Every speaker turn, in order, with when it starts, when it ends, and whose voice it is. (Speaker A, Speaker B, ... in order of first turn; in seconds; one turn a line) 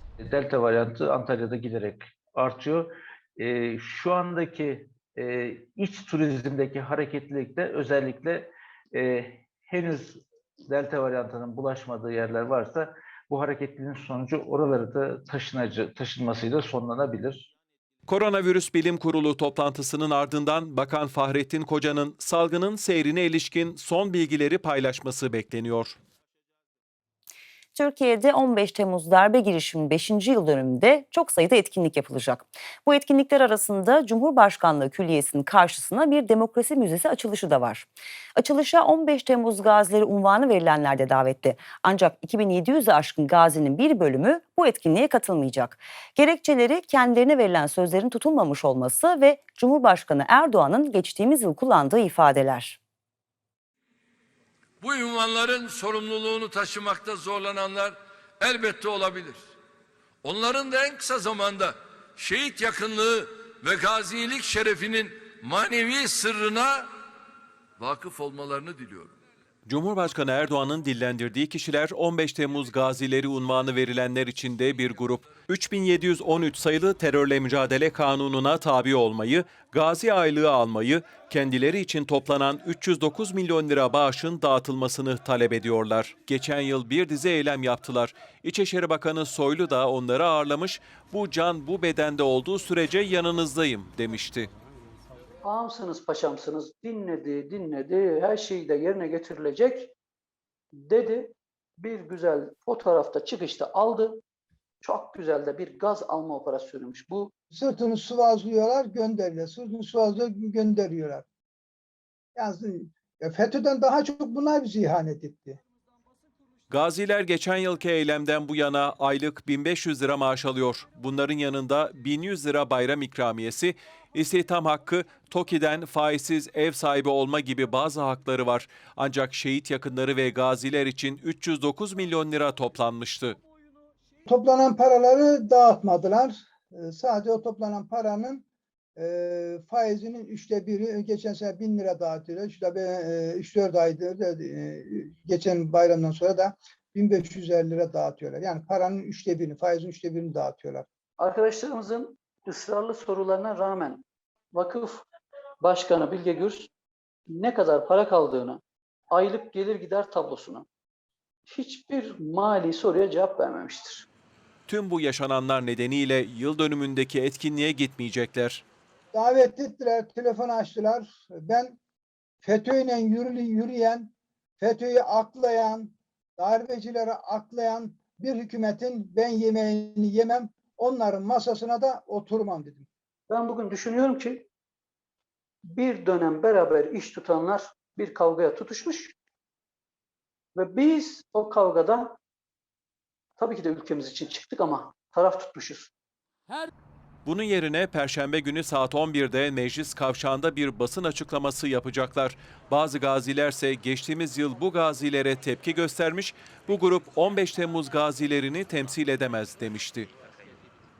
Speaker A: 0.2-17.5
Speaker B: 18.1-26.0
Speaker C: 27.7-52.8
Speaker D: 54.8-59.5
Speaker D: 60.2-66.9
Speaker D: 67.8-69.1
Speaker B: 69.7-94.5
Speaker E: 95.4-99.9
Speaker E: 100.8-104.2
Speaker E: 104.8-107.3
Speaker F: 107.5-111.2
Speaker F: 112.3-115.6
Speaker B: 116.7-133.4
Speaker F: 134.2-138.4
Speaker F: 139.0-150.8
Speaker E: 151.2-155.0
Speaker E: 155.6-156.7
Speaker E: 157.3-160.7
Speaker E: 161.5-164.1
Speaker B: 164.7-168.6
Speaker F: 169.1-171.8
Speaker F: 172.4-182.9
Speaker E: 183.3-184.5
Speaker E: 185.7-189.1
Speaker E: 190.5-192.2
Speaker E: 193.4-195.9
Speaker B: 197.2-210.1